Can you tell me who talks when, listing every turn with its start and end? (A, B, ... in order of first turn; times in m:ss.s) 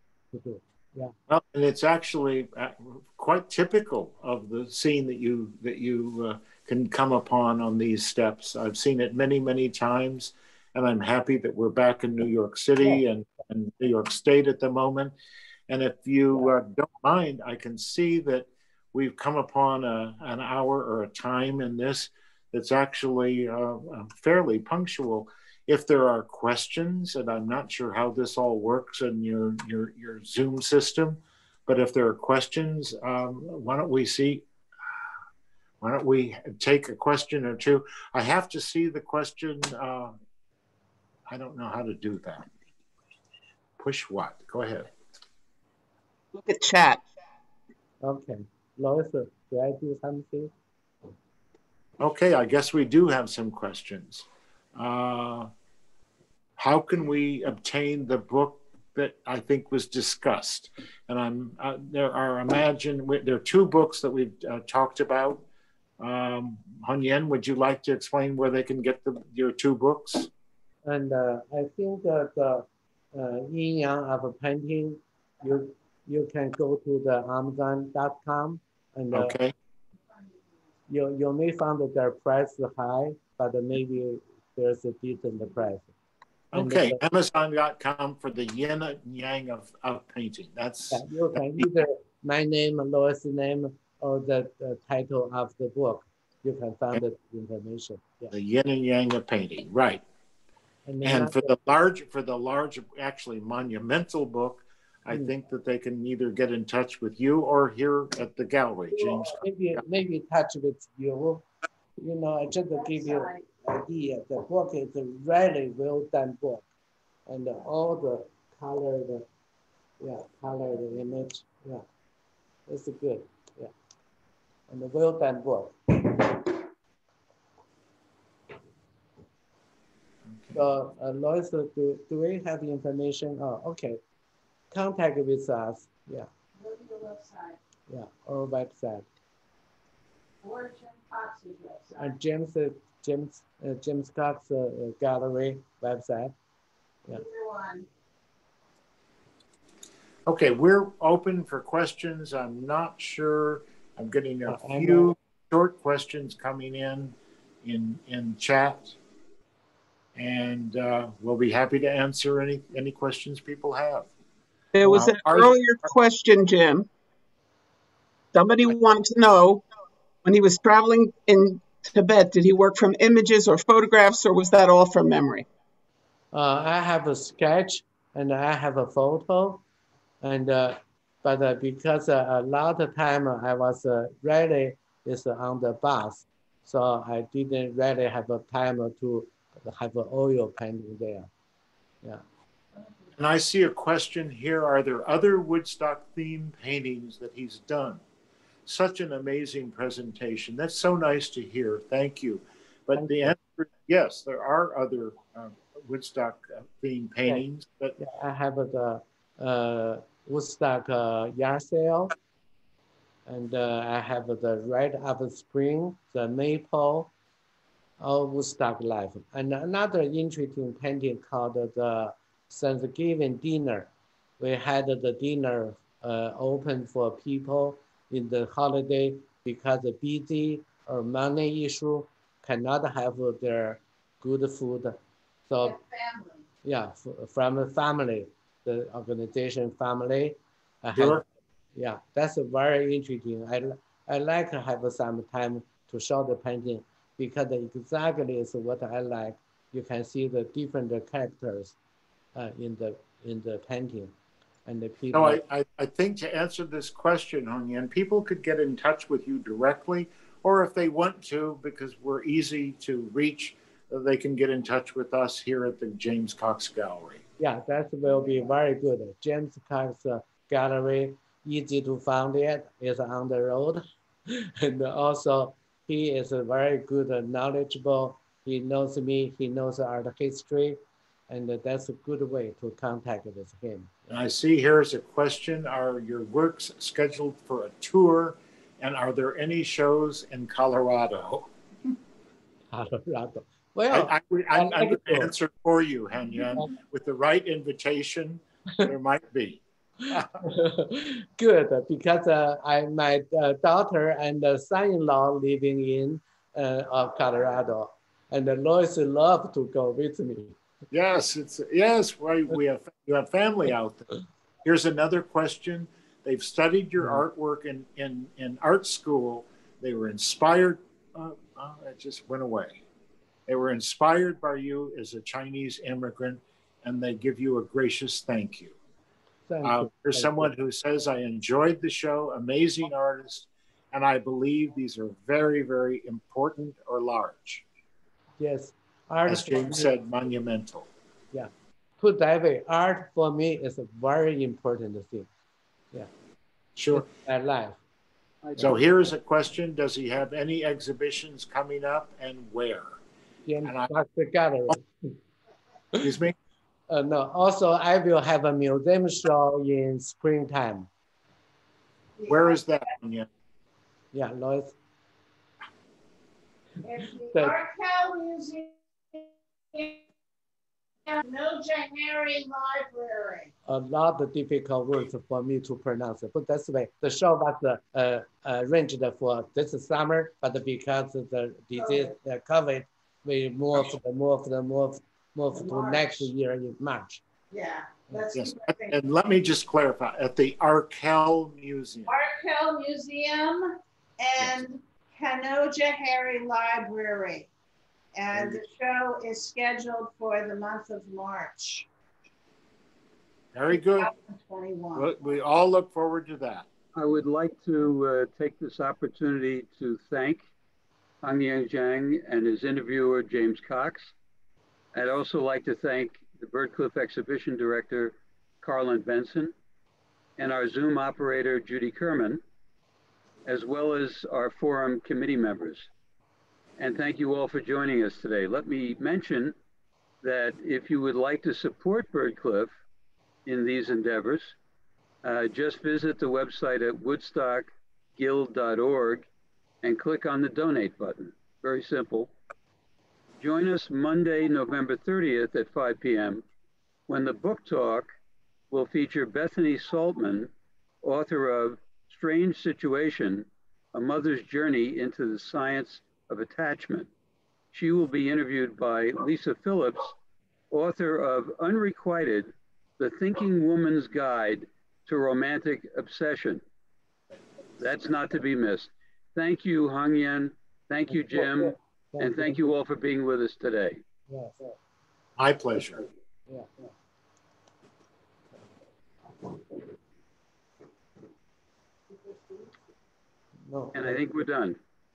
0:00.3-0:01.1 A
0:01.3-0:15.1 B
0:15.7-0:34.4 B
0:35.8-0:40.1 B
0:41.3-0:42.5 B
0:43.8-0:44.9 B
0:46.3-0:47.0 C
0:48.0-0:50.5 A
0:52.0-0:55.5 B
0:56.6-1:05.4 B
1:06.0-1:10.3 B
1:10.8-1:19.4 A
1:19.1-1:19.5 B
1:20.9-1:25.9 A
1:26.5-1:31.7 B
1:26.5-1:27.0 A
1:30.9-1:38.3 A
1:38.3-1:40.0 B
1:40.8-1:41.6 A
1:41.0-1:49.4 B
1:48.9-1:51.4 A
1:52.0-1:56.6 A
1:52.8-1:53.4 D
1:57.3-1:59.3 A
2:00.0-2:01.8 A
2:02.7-2:03.7 A
2:04.7-2:06.6 A
2:10.3-2:10.6 B
2:10.5-2:14.0 A
2:14.7-2:16.3 A
2:16.6-2:17.6 D
2:17.9-2:19.0 A
2:20.4-2:21.9 D
2:21.9-2:26.3 A
2:27.1-2:27.9 D
2:30.2-2:39.0 B
2:34.4-2:35.1 A
2:40.2-2:44.1 B
2:44.7-2:46.9 C
2:44.8-2:45.6 B
2:48.3-2:49.6 C
2:50.2-2:55.4 C
2:56.3-2:59.6 A
3:00.2-3:11.3 A
3:13.2-3:18.0 B
3:18.6-3:28.0 B
3:23.0-3:23.3 A
3:28.0-3:32.1 A
3:33.3-3:37.1 A
3:38.0-3:55.0 A
3:55.5-3:55.7 A
3:55.6-3:56.4 D
3:56.6-4:01.2 A
4:00.9-4:01.2 B
4:01.8-4:11.8 A
4:12.3-4:14.1 A
4:14.6-4:15.4 A
4:15.1-4:27.2 B
4:27.4-4:44.1 A
4:44.1-4:51.5 B
4:52.7-4:55.3 A
4:53.9-5:00.4 B
5:00.4-5:10.6 A
5:10.9-5:14.1 B
5:14.6-5:22.8 B
5:23.5-5:28.8 B
5:29.5-5:30.5 A
5:29.6-5:37.6 B
5:38.4-5:39.9 A
5:39.3-5:40.9 B
5:41.3-5:45.3 A
5:46.8-5:47.0 B
5:46.9-5:47.8 A
5:48.6-5:53.0 B
5:53.4-5:55.2 A
5:53.6-5:53.9 B
5:56.0-5:56.4 B
5:56.9-6:00.9 A
6:02.2-6:02.6 D
6:02.3-6:03.3 B
6:04.1-6:04.8 A
6:06.8-6:10.0 D
6:11.0-6:13.5 D
6:13.7-6:27.2 A
6:21.8-6:22.1 D
6:25.5-6:26.3 D
6:27.5-6:29.0 D
6:28.3-6:32.2 B
6:32.1-6:37.5 D
6:38.1-6:41.9 D
6:38.3-6:38.6 B
6:43.5-6:44.1 B
6:43.7-6:45.1 D
6:44.9-6:46.7 B
6:46.9-6:50.4 E
6:51.2-6:54.1 E
6:54.9-6:59.5 E
7:00.4-7:02.4 E
7:03.4-7:05.9 E
7:06.8-7:09.5 E
7:10.2-7:12.7 E
7:13.4-7:14.6 E
7:15.2-7:19.2 E
7:19.8-7:22.3 E
7:23.4-7:26.4 E
7:27.1-7:28.1 E
7:28.7-7:30.5 E
7:31.0-7:37.1 E
7:37.7-7:40.1 E
7:40.7-7:46.6 E
7:47.8-7:54.0 E
7:51.1-7:52.7 A
7:54.3-7:54.8 A
7:55.4-7:56.0 B
7:56.5-7:56.9 A
8:02.1-8:02.7 D
8:03.7-8:04.3 A
8:03.9-8:04.8 E